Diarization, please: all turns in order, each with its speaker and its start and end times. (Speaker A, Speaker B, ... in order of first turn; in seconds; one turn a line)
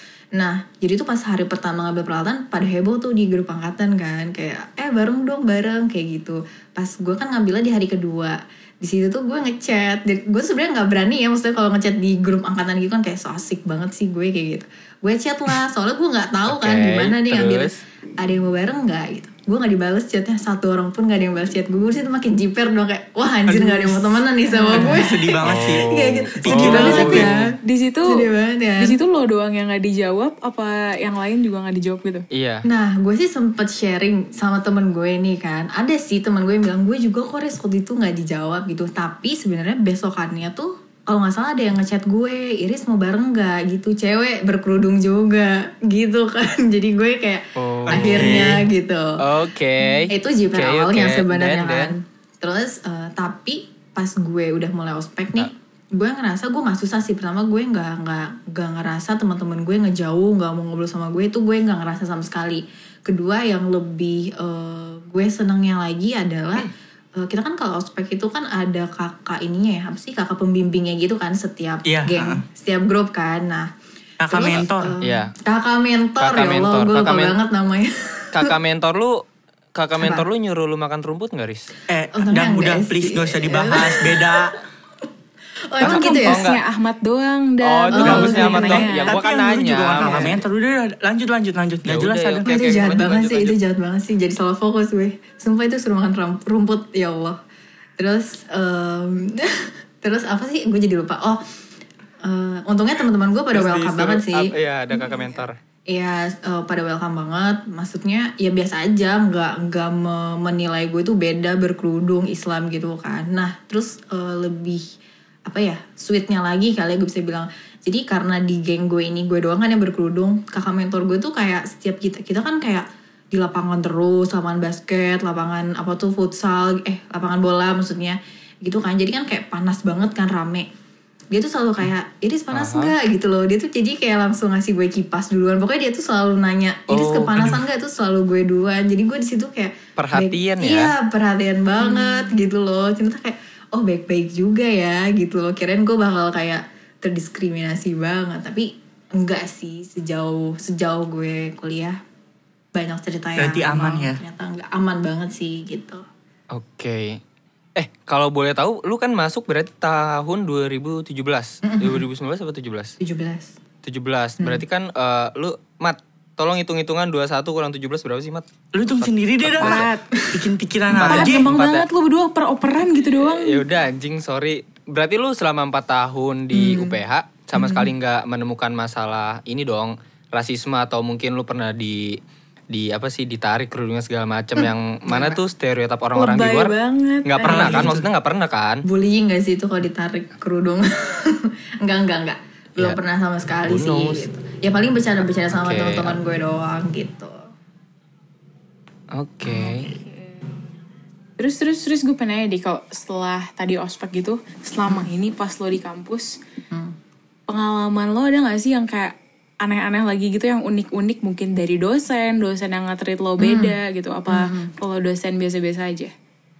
Speaker A: 0.3-29.0
Speaker B: 16.5-17.8
Speaker C: 23.5-25.9
Speaker D: 24.5-24.9
Speaker B: 25.4-27.3
Speaker C: 26.4-27.3
Speaker D: 26.7-28.3
Speaker D: 28.8-32.2
Speaker B: 32.3-32.6
Speaker A: 32.6-49.2
Speaker B: 47.5-48.6
Speaker C: 47.9-48.6
Speaker B: 49.2-51.9
Speaker A: 50.1-73.7
Speaker C: 71.8-72.4
Speaker C: 74.2-74.9
Speaker A: 74.3-78.5
Speaker B: 75.0-75.3
Speaker B: 76.2-77.3
Speaker B: 78.3-79.2
Speaker B: 79.7-81.7
Speaker A: 80.0-80.2
Speaker C: 81.9-84.5
Speaker A: 82.1-84.6
Speaker A: 85.7-86.4
Speaker D: 85.8-89.2
Speaker B: 85.8-86.6
Speaker B: 87.6-90.4
Speaker A: 87.9-89.0
Speaker C: 89.0-93.0
Speaker A: 90.0-90.4
Speaker B: 91.8-93.5
Speaker A: 92.5-97.4
Speaker A: 98.0-101.4
Speaker A: 102.2-114.8
Speaker B: 103.5-105.5
Speaker A: 115.5-130.7
Speaker A: 131.3-152.0
Speaker B: 132.5-132.9
Speaker B: 136.9-137.6
Speaker B: 140.0-140.9
Speaker D: 141.9-142.3
Speaker A: 152.7-156.0
Speaker C: 153.4-154.2
Speaker B: 156.5-157.2
Speaker B: 157.8-162.9
Speaker A: 161.6-162.0
Speaker A: 163.0-163.5
Speaker B: 163.8-169.9
Speaker C: 168.7-171.5
Speaker D: 169.6-170.0
Speaker A: 170.1-170.4
Speaker B: 170.9-171.8
Speaker D: 171.1-173.6
Speaker B: 173.2-186.7
Speaker A: 176.5-177.0
Speaker A: 177.5-177.9
Speaker A: 185.1-185.4
Speaker D: 186.1-187.9
Speaker B: 187.2-188.8
Speaker C: 187.4-188.1
Speaker A: 188.8-197.4
Speaker B: 193.6-194.2
Speaker B: 195.5-196.2
Speaker B: 199.1-199.9
Speaker C: 199.6-200.0
Speaker D: 200.0-200.4
Speaker D: 201.4-206.4
Speaker D: 207.5-216.1
Speaker A: 213.4-213.7
Speaker A: 214.3-214.7